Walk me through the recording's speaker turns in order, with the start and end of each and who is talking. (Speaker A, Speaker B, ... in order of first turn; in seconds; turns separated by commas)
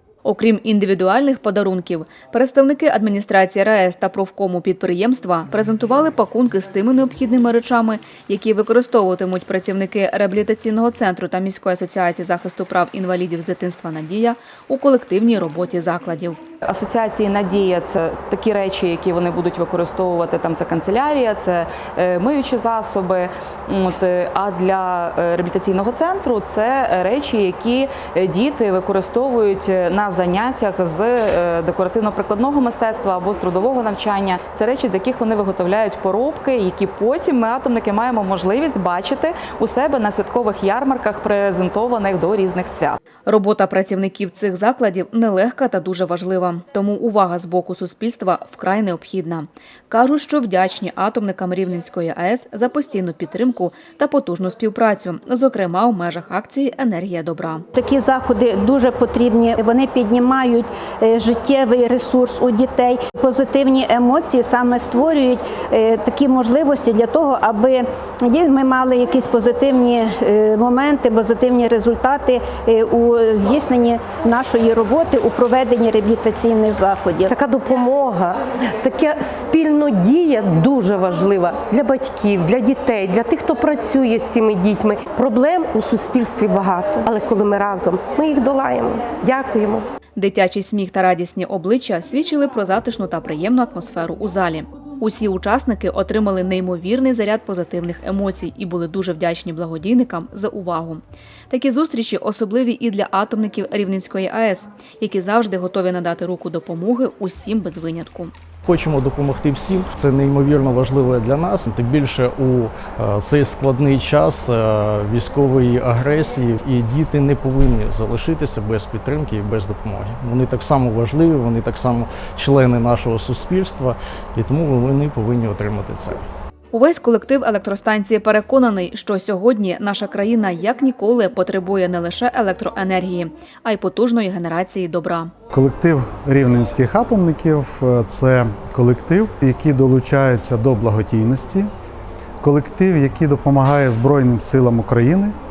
Speaker A: 0.2-16.4, Speaker B: 16.7-43.0, Speaker A: 43.3-57.7, Speaker C: 57.8-77.3, Speaker D: 77.3-89.9, Speaker A: 90.2-108.3, Speaker E: 108.7-126.2, Speaker A: 126.7-135.3, Speaker F: 135.5-141.7, Speaker F: 142.4-145.3